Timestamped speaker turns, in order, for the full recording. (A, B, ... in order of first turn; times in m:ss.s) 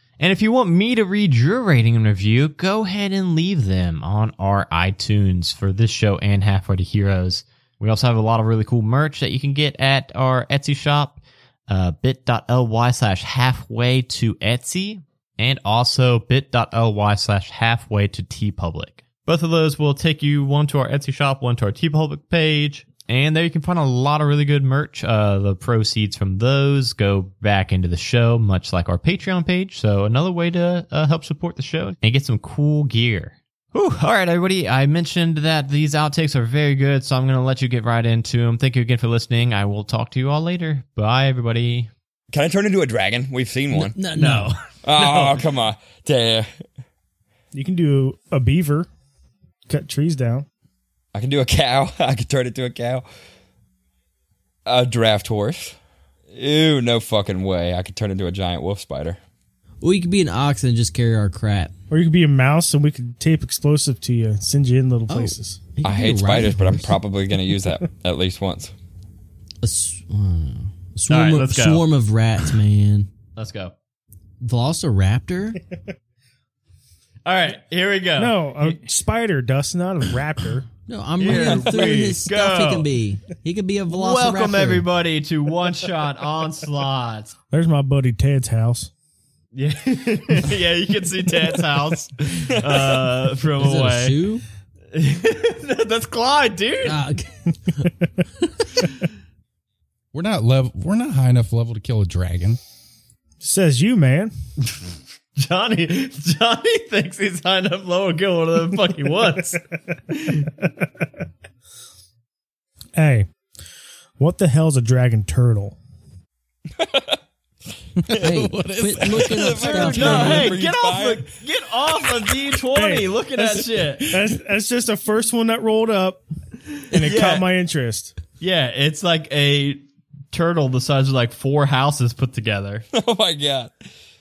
0:00.2-0:41.9 A
0:42.3-0:44.0 B
0:43.7-0:44.5 C
0:44.2-0:45.2 A
0:44.8-0:46.6 B
0:47.5-0:48.9 D
0:49.7-0:50.4 D
0:51.1-0:53.0 B
0:54.6-0:55.8 B
0:56.3-0:59.2 B
0:59.8-1:01.7 C
1:01.9-1:05.6 D
1:05.1-1:07.0 C
1:05.8-1:08.7 B
1:09.6-1:13.1 C
1:11.1-1:11.8 A
1:13.4-1:13.7 A
1:14.4-1:15.6 C
1:17.2-1:18.8 A
1:18.2-1:20.7 D
1:20.9-1:24.9 C
1:21.2-1:22.9 A
1:23.9-1:27.3 A
1:27.5-1:28.9 D
1:29.5-1:34.2 A
1:33.6-1:34.4 C
1:34.9-1:37.0 A
1:36.8-1:37.9 C
1:38.4-1:38.7 C
1:40.1-1:42.6 E
1:43.4-1:44.3 D
1:45.4-1:50.5 A
1:52.9-1:53.3 D
1:54.2-1:55.8 D
1:56.8-1:57.2 B
1:58.1-2:00.7 E
1:58.1-1:58.4 B
1:58.2-2:00.5 C
1:59.0-2:01.2 B
1:59.8-2:04.2 A
2:02.7-2:03.1 D
2:04.1-2:06.2 D
2:06.8-2:08.1 D
2:06.9-2:07.5 A
2:08.4-2:12.8 A
2:12.9-2:13.8 B